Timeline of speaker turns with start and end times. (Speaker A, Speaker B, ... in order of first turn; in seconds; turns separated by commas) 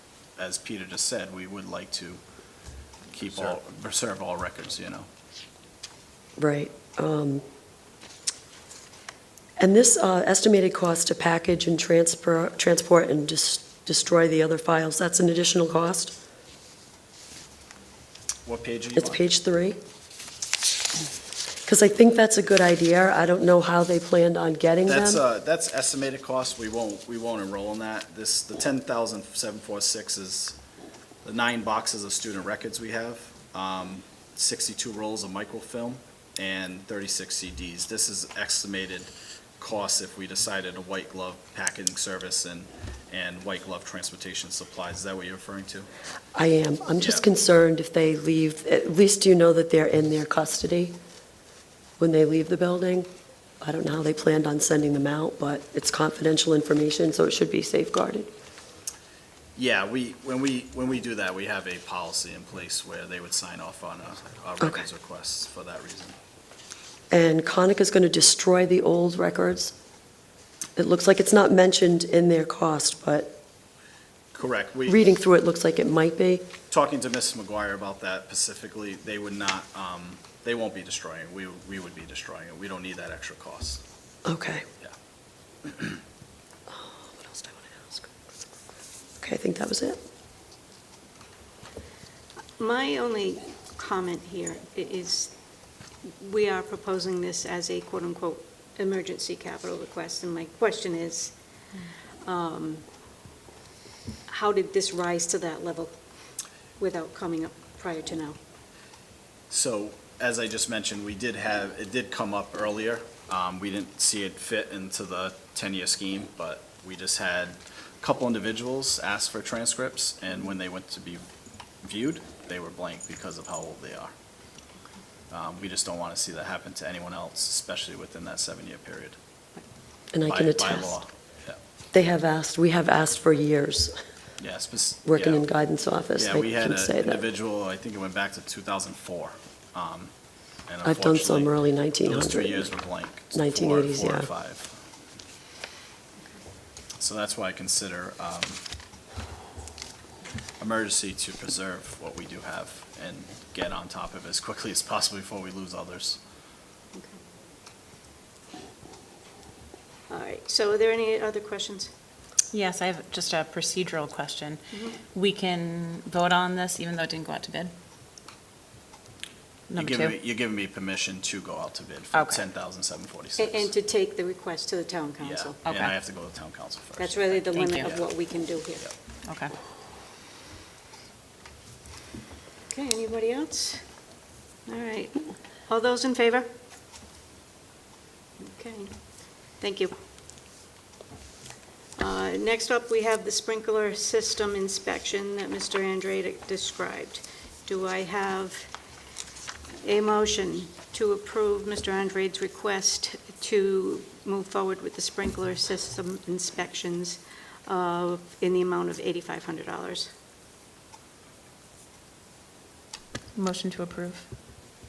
Speaker A: 0.4-2.2, Speaker A: 3.1-5.1, Speaker B: 6.4-7.4, Speaker B: 9.6-16.1, Speaker A: 18.4-19.2, Speaker B: 18.9-19.8, Speaker B: 21.6-25.2, Speaker A: 24.9-30.6, Speaker A: 31.2-45.9, Speaker B: 46.3-51.0, Speaker A: 47.0-47.2, Speaker B: 52.0-53.1, Speaker B: 53.6-58.3, Speaker A: 59.5-66.2, Speaker B: 67.1-69.7, Speaker B: 70.8-73.4, Speaker A: 74.3-75.0, Speaker B: 74.9-76.5, Speaker A: 76.7-83.8, Speaker B: 84.2-84.6, Speaker A: 85.6-86.0, Speaker B: 86.7-88.1, Speaker B: 89.2-90.0, Speaker C: 92.6-95.3, Speaker C: 96.0-101.3, Speaker C: 102.2-102.8, Speaker C: 104.3-105.9, Speaker C: 106.8-108.4, Speaker A: 109.5-121.2, Speaker A: 121.8-124.1, Speaker A: 125.3-129.2, Speaker B: 130.1-130.9, Speaker A: 130.3-131.6, Speaker B: 131.9-133.9, Speaker A: 134.4-135.4, Speaker B: 135.0-137.2, Speaker A: 136.1-140.1, Speaker A: 140.7-144.8, Speaker B: 140.8-142.7, Speaker B: 143.3-144.3, Speaker A: 147.0-148.6, Speaker A: 150.6-156.2, Speaker C: 160.1-161.9, Speaker D: 162.5-167.7, Speaker C: 164.7-165.0, Speaker D: 169.7-170.1, Speaker A: 169.7-173.7, Speaker D: 172.1-172.4, Speaker C: 173.4-175.6, Speaker A: 175.2-178.1, Speaker D: 175.6-175.9, Speaker C: 177.0-178.8, Speaker D: 177.5-177.9, Speaker D: 179.2-179.5, Speaker C: 182.7-183.8, Speaker C: 184.7-186.5, Speaker C: 188.4-188.9, Speaker C: 189.6-189.9, Speaker C: 192.0-198.7, Speaker C: 199.8-210.1, Speaker D: 213.3-214.3